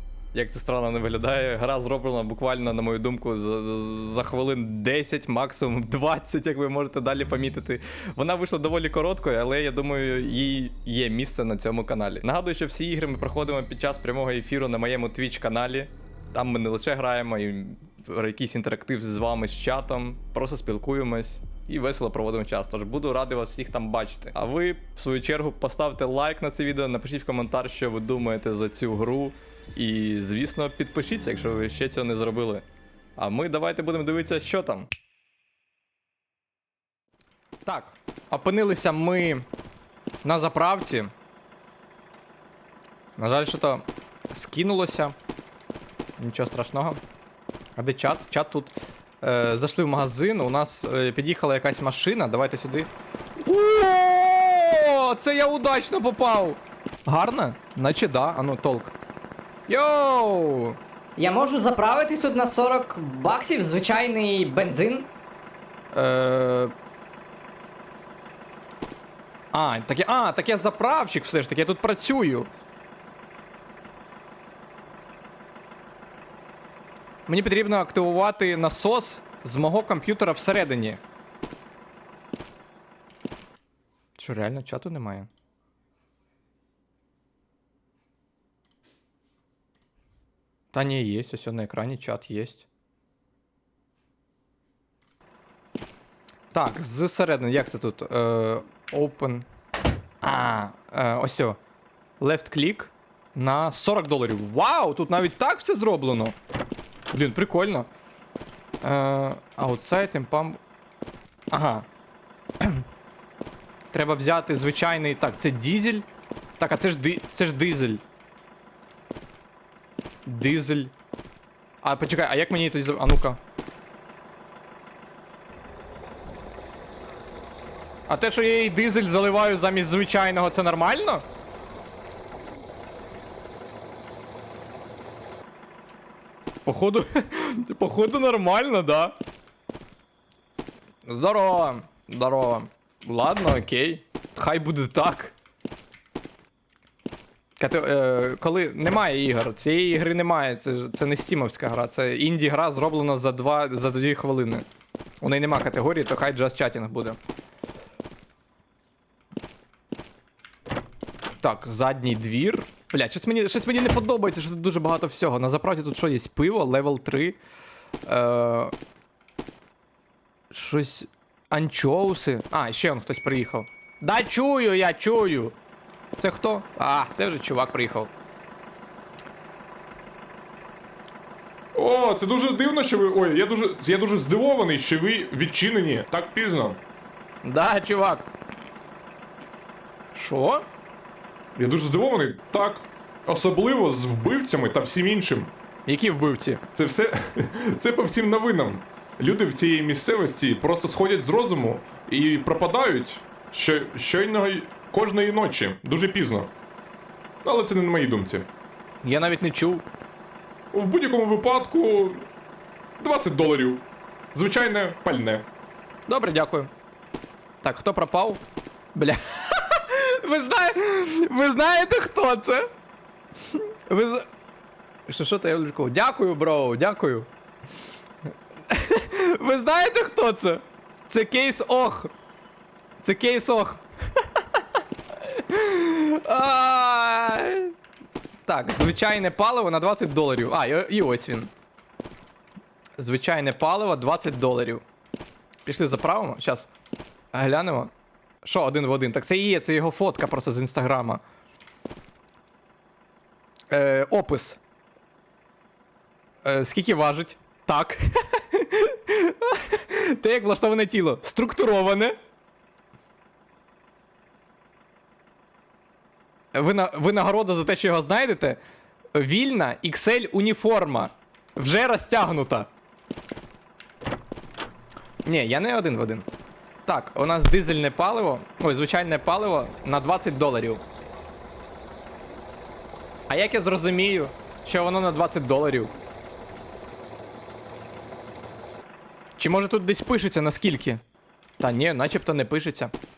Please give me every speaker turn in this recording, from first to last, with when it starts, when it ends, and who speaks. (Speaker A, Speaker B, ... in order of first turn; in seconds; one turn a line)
Speaker A: 0.3-32.6
Speaker A: 33.2-34.9
Speaker A: 37.6-39.4
Speaker A: 40.2-41.1
Speaker A: 43.2-45.1
Speaker A: 46.2-47.0
Speaker A: 47.8-58.9
Speaker A: 59.7-60.8
Speaker B: 61.2-65.0
Speaker A: 65.9-66.7
Speaker A: 69.5-72.5
Speaker A: 77.3-81.0
Speaker A: 84.2-85.3
Speaker A: 90.7-92.7
Speaker A: 96.5-99.5
Speaker A: 100.2-101.6
Speaker A: 102.2-106.3
Speaker A: 107.1-107.9
Speaker A: 108.8-110.6
Speaker A: 111.5-111.9
Speaker A: 113.9-116.1
Speaker A: 116.6-118.0
Speaker A: 120.2-120.9
Speaker A: 121.8-123.4
Speaker A: 128.1-131.2
Speaker A: 136.6-139.2
Speaker A: 141.1-145.3
Speaker A: 147.6-154.7
Speaker A: 155.2-157.2
Speaker A: 161.4-167.4
Speaker A: 168.0-168.7
Speaker A: 170.5-175.5
Speaker A: 176.2-178.1
Speaker C: 181.7-186.8
Speaker A: 187.4-188.3
Speaker A: 190.1-190.6
Speaker C: 191.6-195.5
Speaker A: 195.9-196.6
Speaker C: 196.8-206.5
Speaker C: 207.4-208.5
Speaker A: 209.0-209.8
Speaker C: 210.7-212.3
Speaker C: 213.0-215.4
Speaker A: 216.1-216.7
Speaker A: 217.6-218.4
Speaker A: 218.9-222.7
Speaker A: 223.5-224.3
Speaker A: 225.1-227.3
Speaker A: 228.7-232.1
Speaker A: 233.0-234.6
Speaker A: 235.2-237.7
Speaker A: 238.4-241.5
Speaker A: 243.0-244.8
Speaker A: 245.6-246.7
Speaker A: 247.3-247.9
Speaker A: 248.4-251.2
Speaker A: 253.7-254.6
Speaker A: 256.4-262.2
Speaker A: 266.5-268.6
Speaker A: 269.1-272.7
Speaker A: 275.2-276.2
Speaker A: 276.9-280.8
Speaker A: 283.3-285.9
Speaker A: 289.4-291.0
Speaker A: 291.6-292.9